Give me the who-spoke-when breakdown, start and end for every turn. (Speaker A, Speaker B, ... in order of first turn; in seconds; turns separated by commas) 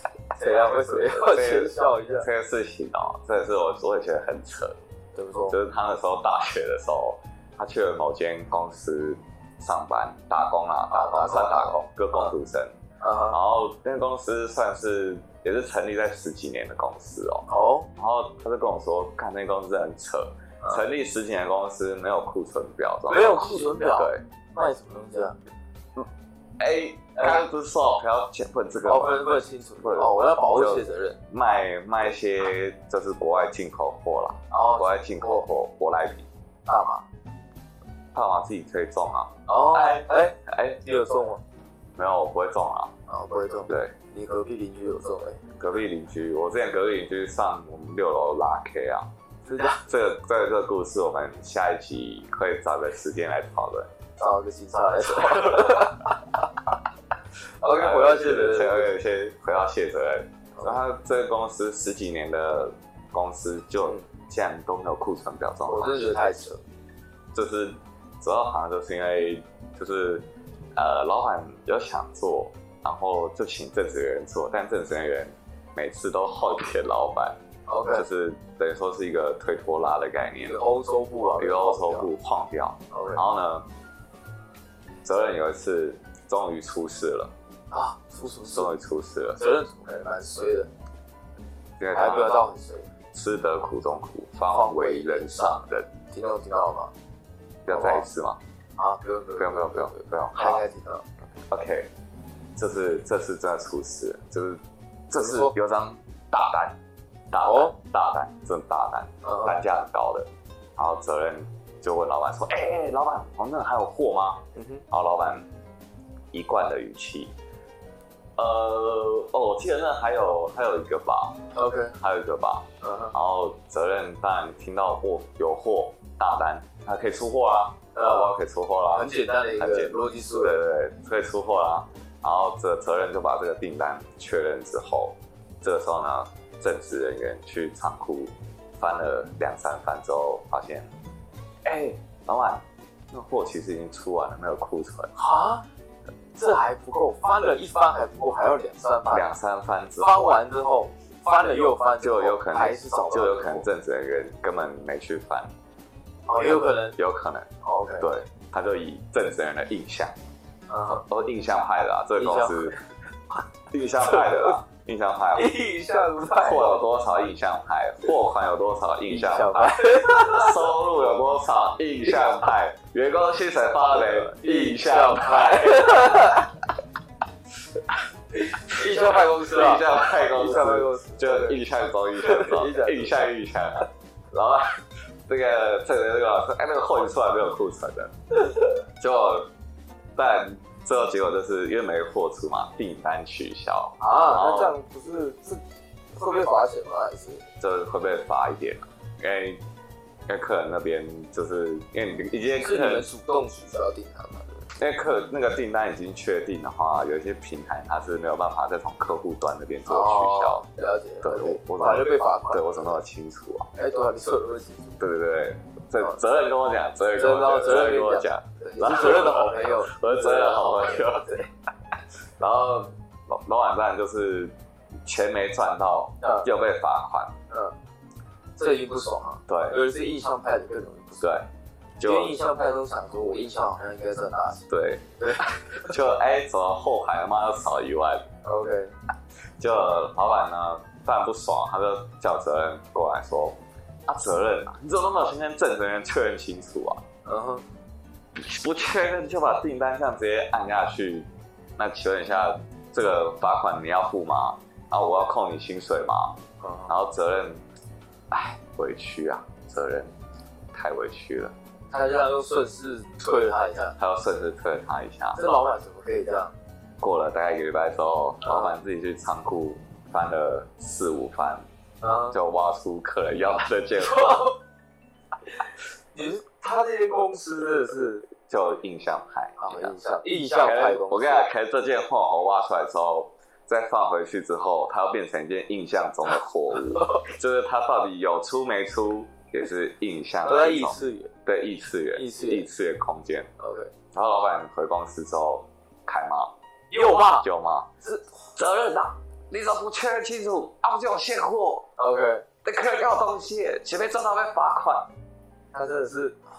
Speaker A: 0.3-2.2, Speaker B: 0.6-4.8, Speaker A: 5.1-5.5, Speaker B: 5.5-12.7, Speaker A: 10.9-12.3, Speaker A: 13.0-13.4, Speaker B: 13.3-24.2, Speaker A: 17.5-17.9, Speaker A: 23.1-25.4, Speaker B: 26.6-36.3, Speaker A: 27.1-27.4, Speaker A: 28.8-31.2, Speaker A: 34.5-35.5, Speaker A: 36.6-37.0, Speaker B: 38.1-40.8, Speaker A: 39.5-41.4, Speaker B: 42.0-42.9, Speaker A: 43.1-45.4, Speaker B: 43.7-43.9, Speaker B: 45.6-49.1, Speaker A: 49.5-49.8, Speaker B: 49.7-53.9, Speaker A: 54.2-56.2, Speaker B: 55.2-55.8, Speaker A: 57.6-58.9, Speaker B: 57.7-66.1, Speaker A: 65.7-66.6, Speaker B: 67.3-77.4, Speaker A: 77.7-78.0, Speaker B: 77.9-80.6, Speaker A: 80.3-82.1, Speaker B: 81.4-83.7, Speaker A: 82.9-83.2, Speaker B: 85.0-87.3, Speaker A: 87.7-88.7, Speaker B: 88.5-89.4, Speaker A: 89.4-90.7, Speaker B: 91.8-92.4, Speaker A: 91.9-92.9, Speaker B: 93.1-95.9, Speaker A: 94.5-96.9, Speaker B: 97.6-98.4, Speaker A: 97.7-98.0, Speaker A: 98.8-101.1, Speaker B: 99.4-100.6, Speaker B: 101.5-101.9, Speaker B: 102.5-106.8, Speaker A: 105.1-105.5, Speaker B: 107.3-115.5, Speaker A: 107.4-107.7, Speaker A: 109.2-109.6, Speaker A: 114.5-114.8, Speaker B: 116.3-117.3, Speaker B: 118.3-121.4, Speaker A: 121.5-121.9, Speaker B: 122.0-140.9, Speaker A: 122.8-123.1, Speaker A: 127.9-128.3, Speaker A: 128.9-130.6, Speaker B: 141.6-145.1, Speaker A: 145.1-145.6, Speaker A: 146.3-149.3, Speaker B: 149.1-150.4, Speaker A: 150.0-153.6, Speaker B: 152.0-155.5, Speaker A: 156.3-157.0, Speaker B: 156.9-157.5, Speaker A: 157.6-158.1, Speaker B: 158.0-160.2, Speaker A: 160.7-161.0, Speaker B: 160.9-162.8, Speaker A: 162.2-162.8, Speaker B: 163.7-165.6, Speaker A: 164.0-164.6, Speaker A: 165.3-166.8, Speaker B: 166.4-176.2, Speaker A: 169.1-170.6, Speaker A: 173.9-176.5, Speaker A: 178.3-181.6, Speaker B: 178.7-188.1, Speaker A: 182.2-183.3, Speaker B: 189.0-189.5, Speaker B: 190.1-194.7, Speaker A: 194.0-195.6, Speaker A: 196.1-197.4, Speaker B: 197.6-199.6, Speaker B: 200.3-203.1, Speaker A: 202.6-204.7, Speaker B: 204.8-210.7, Speaker A: 209.8-213.0, Speaker B: 211.2-213.7, Speaker A: 213.7-214.9, Speaker B: 215.0-221.3, Speaker A: 217.2-221.5, Speaker B: 222.4-224.5, Speaker B: 225.0-227.3, Speaker A: 226.2-226.5, Speaker A: 227.5-227.7, Speaker A: 228.6-231.3, Speaker B: 229.5-229.8, Speaker B: 231.2-232.4, Speaker A: 232.0-234.7, Speaker B: 234.7-238.3, Speaker A: 235.2-235.5, Speaker A: 238.4-238.9, Speaker B: 239.6-247.0, Speaker A: 247.2-247.6, Speaker B: 248.3-257.6, Speaker A: 256.6-256.9, Speaker B: 258.3-260.1, Speaker B: 260.7-261.5, Speaker A: 261.9-263.9, Speaker B: 264.0-265.4, Speaker A: 265.3-266.5, Speaker B: 267.0-271.6, Speaker A: 268.4-268.7, Speaker A: 272.0-272.4, Speaker B: 272.3-274.5, Speaker A: 274.0-274.5, Speaker A: 276.1-278.3, Speaker B: 278.4-279.9, Speaker A: 279.6-281.5, Speaker B: 280.5-293.5, Speaker A: 286.9-287.2, Speaker A: 290.4-291.3, Speaker A: 292.1-292.7, Speaker A: 293.6-293.9, Speaker B: 294.1-296.5, Speaker A: 296.9-297.4, Speaker B: 297.1-297.9, Speaker A: 298.0-298.3, Speaker B: 298.5-301.9, Speaker A: 302.0-302.4, Speaker B: 302.6-305.1, Speaker A: 305.7-306.4